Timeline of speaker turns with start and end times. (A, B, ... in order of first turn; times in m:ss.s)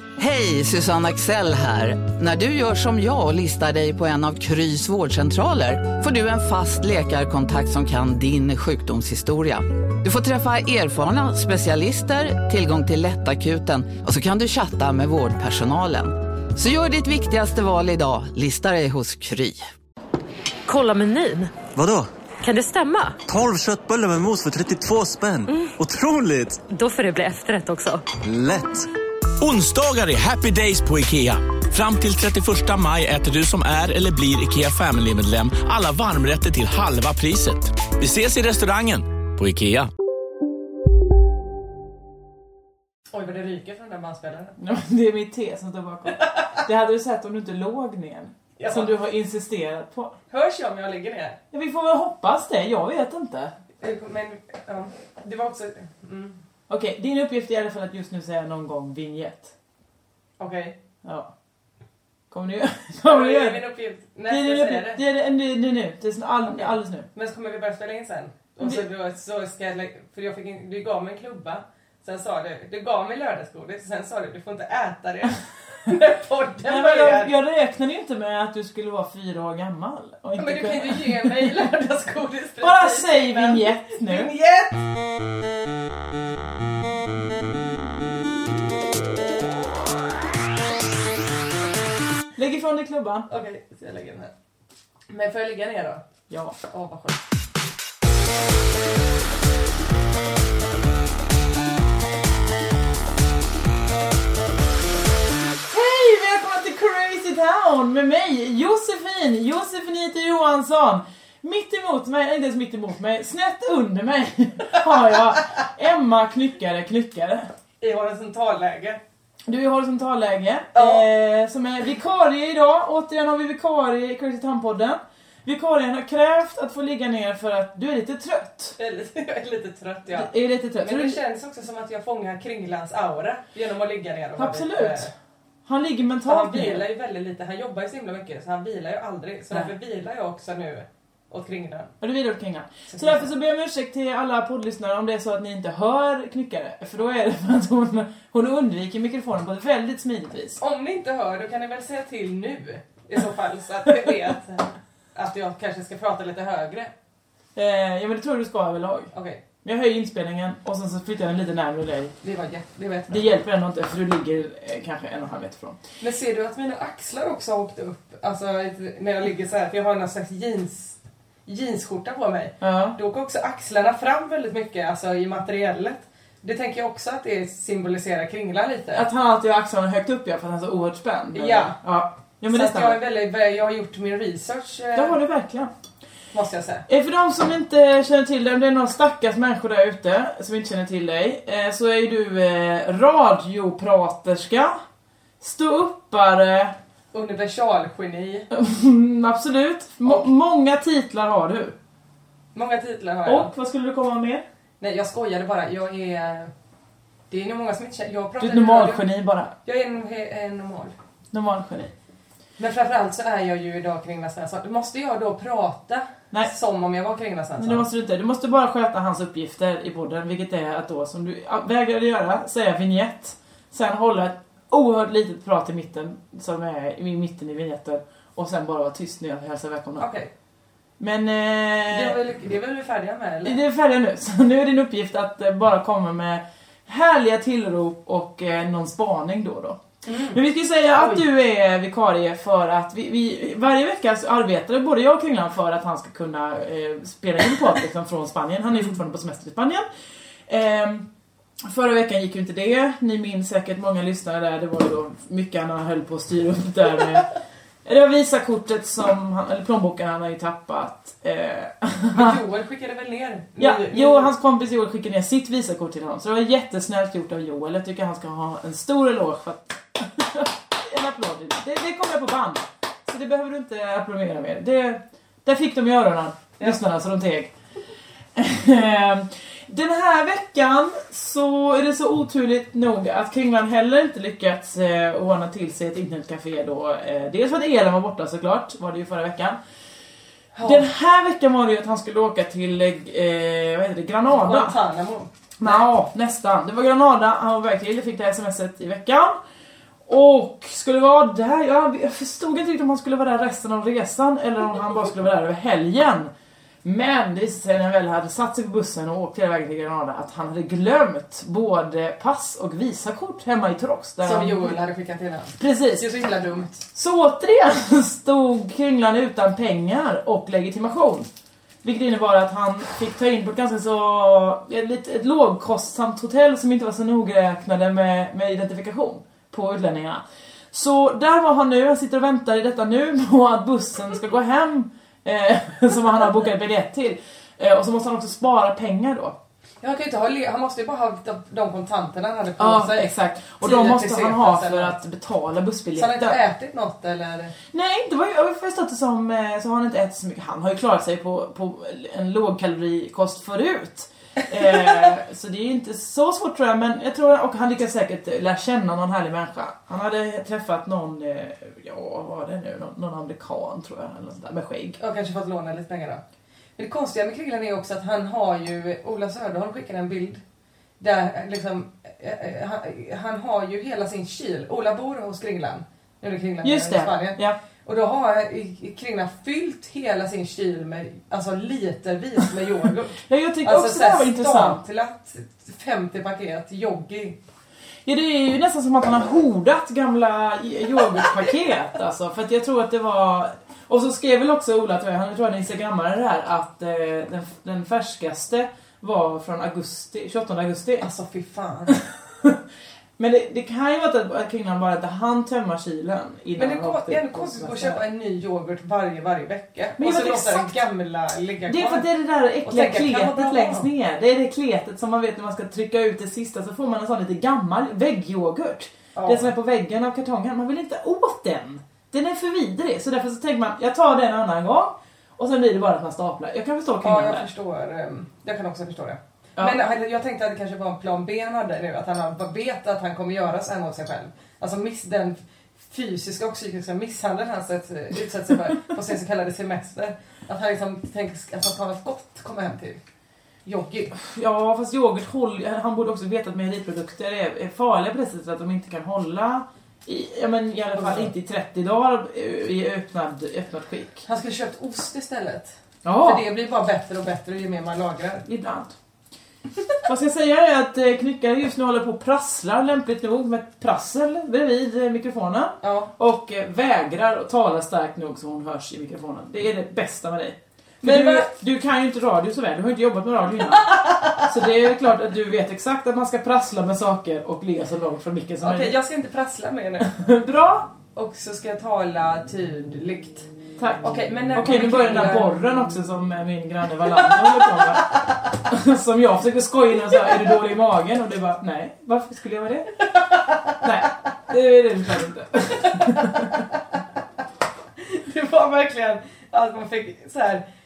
0:00.2-0:19.6 A
0:20.7-0:21.6 B
0:21.7-0:22.1 C
0:22.4-0:23.2 B
0:23.3-0:26.7 C
0:26.7-0:28.0 B
0:28.2-0:28.9 C
0:29.4-0:39.9 D
0:43.1-0:44.6 E
0:44.6-0:50.1 F
0:48.6-0:48.9 E
0:50.3-0:51.4 E
0:51.5-0:53.5 F
0:53.8-0:56.4 E
0:56.7-0:59.5 F
1:00.4-1:00.8 E
1:01.0-1:01.3 F
1:02.3-1:03.6 F
1:03.1-1:05.0 E
1:04.3-1:07.1 F
1:06.4-1:17.3 E
1:16.7-1:21.7 F
1:20.4-1:24.8 E
1:22.6-1:24.3 F
1:32.4-1:33.3 F
1:33.3-1:34.3 E
1:35.1-1:36.0 E
1:36.3-1:36.6 F
1:36.7-1:37.2 E
1:45.7-1:57.5 F
1:57.8-1:59.0 E
1:59.5-2:08.8 F
2:00.8-2:01.0 E
2:08.8-2:10.3 E
2:10.1-2:11.2 F
2:10.8-2:15.1 E
2:14.4-2:15.1 F
2:15.7-2:16.8 F
2:16.2-2:21.9 E
2:22.0-2:30.6 F
2:22.9-2:23.3 E
2:30.6-2:36.9 E
2:37.6-2:39.1 F
2:39.1-2:39.4 E
2:39.6-2:42.1 F
2:42.2-2:43.2 E
2:43.1-2:45.8 F
2:46.0-2:59.0 E
2:52.6-2:53.0 F
2:58.9-3:03.0 F
3:01.3-3:01.8 E
3:02.5-3:05.2 E
3:04.9-3:05.7 F
3:06.3-3:06.8 E
3:06.9-3:14.8 F
3:15.4-3:16.8 F
3:17.1-3:18.5 E
3:18.5-3:21.8 F
3:22.5-3:23.5 E
3:23.2-3:24.4 F
3:24.8-3:26.5 E
3:27.3-3:29.0 E
3:28.4-3:29.5 F
3:29.6-3:30.9 E
3:31.3-3:31.9 F
3:32.6-3:37.8 E
3:37.6-3:50.1 F
3:50.0-3:50.3 E
3:51.0-3:52.2 F
3:51.9-3:53.6 E
3:53.4-3:59.8 F
4:00.0-4:00.4 E
4:00.3-4:09.8 F
4:01.0-4:01.2 E
4:10.5-4:11.1 F
4:11.6-4:17.3 F
4:17.8-4:22.4 F
4:22.1-4:24.3 E
4:23.6-4:37.5 F
4:38.4-4:49.6 F
4:50.6-4:50.9 E
4:50.6-4:54.8 F
4:54.3-4:55.8 E
4:55.6-4:59.4 F
5:00.1-5:06.3 F
5:06.8-5:14.8 F
5:14.2-5:16.8 E
5:15.6-5:16.1 F
5:16.9-5:21.3 F
5:21.8-5:30.2 F
5:30.7-5:39.4 F
5:39.8-5:44.9 E
5:42.6-5:46.4 F
5:45.9-5:47.6 E
5:47.7-6:05.0 F
6:05.0-6:06.2 E
6:06.8-6:10.4 E
6:11.0-6:27.4 E
6:16.6-6:17.6 F
6:23.3-6:24.8 F
6:28.1-6:41.1 F
6:41.0-6:42.0 E
6:41.9-6:42.6 F
6:43.2-6:48.0 F
6:46.6-6:52.0 E
6:50.0-6:50.8 F
6:51.7-7:07.5 F
6:52.6-6:53.9 E
6:59.2-6:59.5 E
7:07.0-7:23.0 E
7:23.6-7:24.1 E
7:24.1-7:34.2 F
7:30.9-7:31.3 E
7:34.2-7:38.4 E
7:36.0-7:36.4 F
7:38.4-7:38.9 F
7:40.0-7:59.0 F
7:45.8-7:46.1 E
7:51.0-7:51.5 E
7:53.8-7:54.4 E
7:58.6-8:00.1 E
8:00.0-8:00.9 F
8:01.1-8:03.5 E
8:03.8-8:13.0 F
8:04.0-8:05.6 E
8:07.2-8:08.2 E
8:13.8-8:16.6 F
8:15.8-8:16.6 E
8:18.0-8:20.6 E